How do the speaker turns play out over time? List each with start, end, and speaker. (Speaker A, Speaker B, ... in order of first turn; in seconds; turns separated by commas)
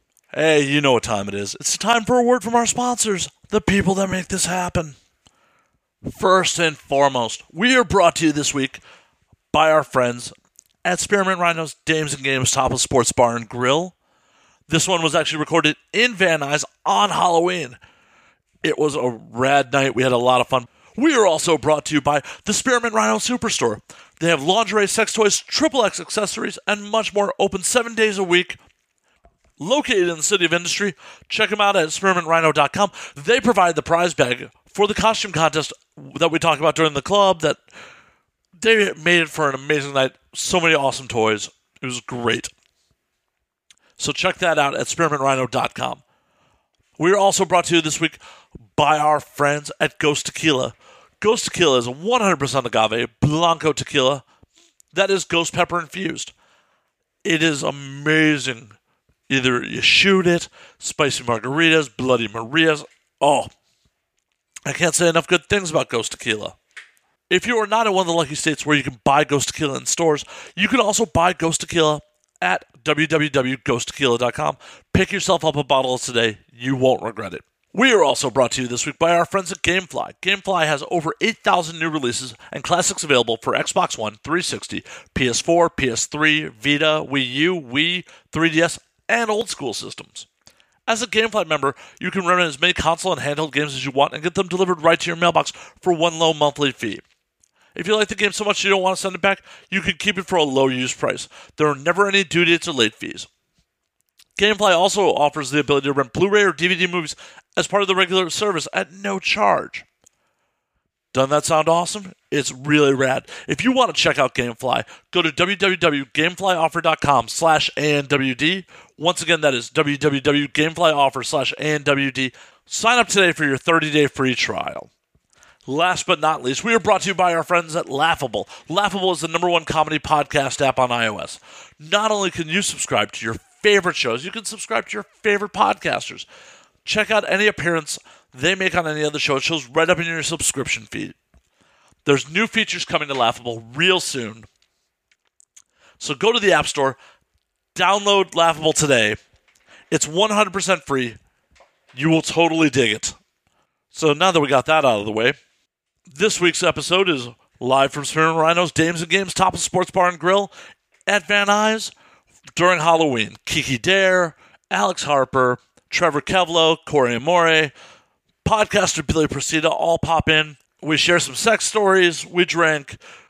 Speaker A: 0.3-5.0, Speaker A: 6.0-8.8, Speaker A: 9.5-10.3, Speaker A: 10.8-13.9, Speaker A: 14.7-17.8, Speaker A: 18.6-28.6, Speaker A: 29.6-37.6, Speaker A: 38.6-42.5, Speaker A: 44.0-46.0, Speaker A: 47.0-48.2, Speaker A: 48.8-54.2, Speaker A: 54.9-56.3, Speaker A: 57.2-58.8, Speaker A: 59.3-63.5, Speaker A: 64.7-66.5, Speaker A: 67.3-90.3, Speaker A: 90.9-97.0, Speaker A: 97.7-103.3, Speaker A: 104.4-109.8, Speaker A: 111.1-124.9, Speaker A: 125.7-136.2, Speaker A: 136.8-141.2, Speaker A: 142.1-144.5, Speaker A: 146.0-147.0, Speaker A: 147.7-149.2, Speaker A: 149.9-151.2, Speaker A: 151.9-153.2, Speaker A: 153.9-155.4, Speaker A: 156.1-160.5, Speaker A: 161.1-161.9, Speaker A: 162.6-167.7, Speaker A: 168.4-173.0